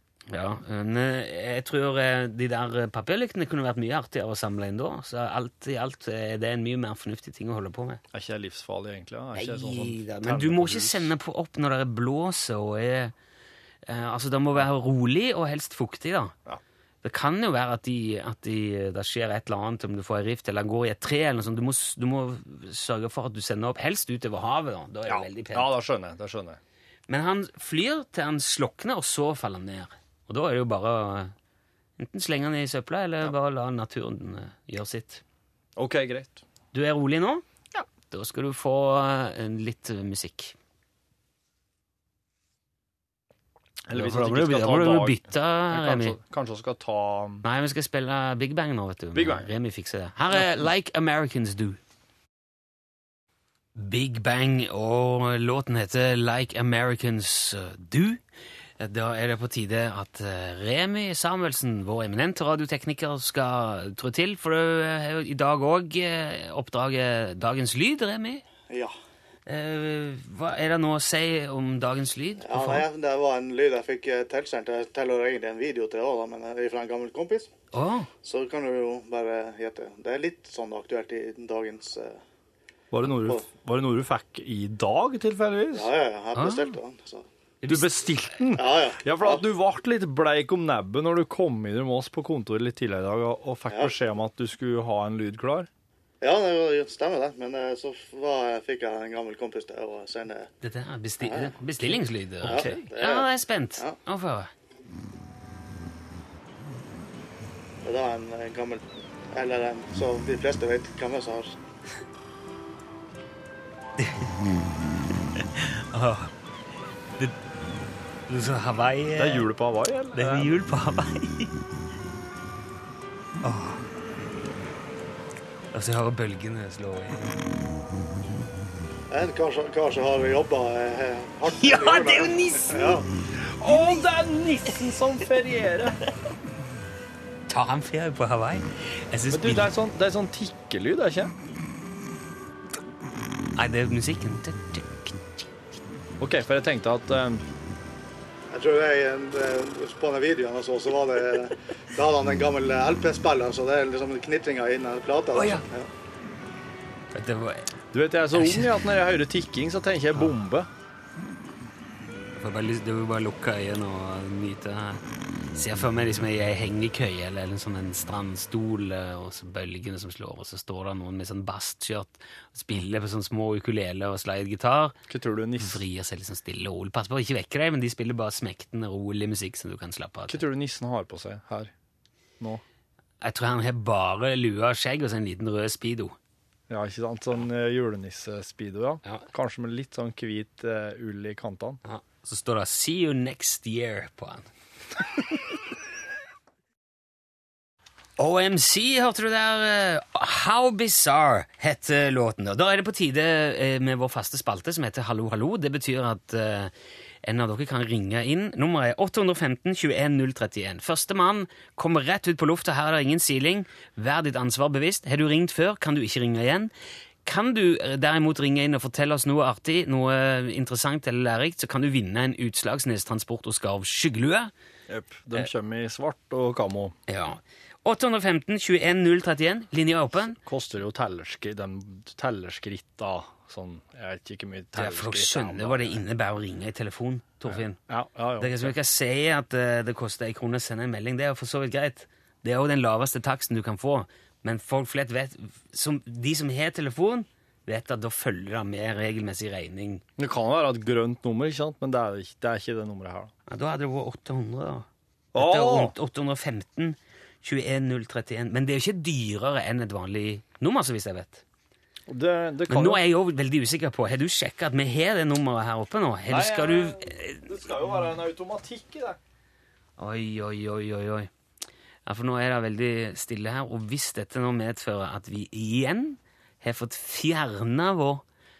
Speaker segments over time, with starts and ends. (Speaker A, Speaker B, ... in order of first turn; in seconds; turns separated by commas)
Speaker A: 0.3-8.0, Speaker B: 8.1-11.1, Speaker A: 9.3-13.1, Speaker A: 13.9-16.4, Speaker A: 17.0-25.7, Speaker B: 25.1-26.6, Speaker A: 27.1-31.3, Speaker A: 32.0-35.2, Speaker B: 35.8-36.4, Speaker A: 36.7-37.4, Speaker A: 38.1-40.5, Speaker B: 43.9-47.4, Speaker A: 43.9-46.1, Speaker A: 47.4-51.8, Speaker B: 49.1-49.5, Speaker A: 53.8-58.2, Speaker A: 58.8-68.4, Speaker A: 69.5-72.9, Speaker C: 72.4-77.5, Speaker A: 77.7-78.1, Speaker C: 78.2-82.2, Speaker B: 82.9-85.9, Speaker C: 85.7-87.2, Speaker A: 86.4-86.8, Speaker A: 87.6-87.9, Speaker B: 87.7-95.7, Speaker C: 88.5-89.4, Speaker C: 96.2-100.5, Speaker A: 100.6-104.5, Speaker C: 101.2-103.9, Speaker B: 102.5-102.8, Speaker C: 107.8-111.5, Speaker A: 114.0-114.3, Speaker A: 115.4-116.3, Speaker A: 118.3-119.5, Speaker B: 119.2-120.6, Speaker A: 120.1-121.5, Speaker A: 123.4-123.8, Speaker A: 125.7-127.4, Speaker C: 129.1-133.1, Speaker A: 131.5-133.0, Speaker B: 133.4-136.0, Speaker A: 137.5-139.7, Speaker B: 139.3-141.3, Speaker A: 143.6-145.2, Speaker B: 146.2-147.4, Speaker C: 148.5-155.9, Speaker A: 155.3-155.6, Speaker A: 157.1-157.7, Speaker B: 157.9-160.7, Speaker A: 158.3-158.8, Speaker A: 162.4-165.0, Speaker A: 165.5-174.9, Speaker B: 175.1-175.8, Speaker A: 175.6-180.4, Speaker B: 180.3-181.7, Speaker A: 183.2-186.1, Speaker B: 186.7-191.8, Speaker A: 191.8-194.5, Speaker A: 198.2-206.7, Speaker A: 207.2-216.7, Speaker A: 217.2-224.5, Speaker B: 224.9-226.9, Speaker A: 227.1-230.4, Speaker B: 230.4-236.0, Speaker A: 234.7-237.8, Speaker B: 237.5-238.7, Speaker A: 238.4-250.0, Speaker B: 250.2-253.3, Speaker A: 253.5-254.9, Speaker B: 255.3-255.9, Speaker A: 255.4-261.4, Speaker B: 262.1-263.0, Speaker A: 262.7-267.4, Speaker B: 266.3-269.2, Speaker A: 270.0-271.3, Speaker A: 272.1-278.2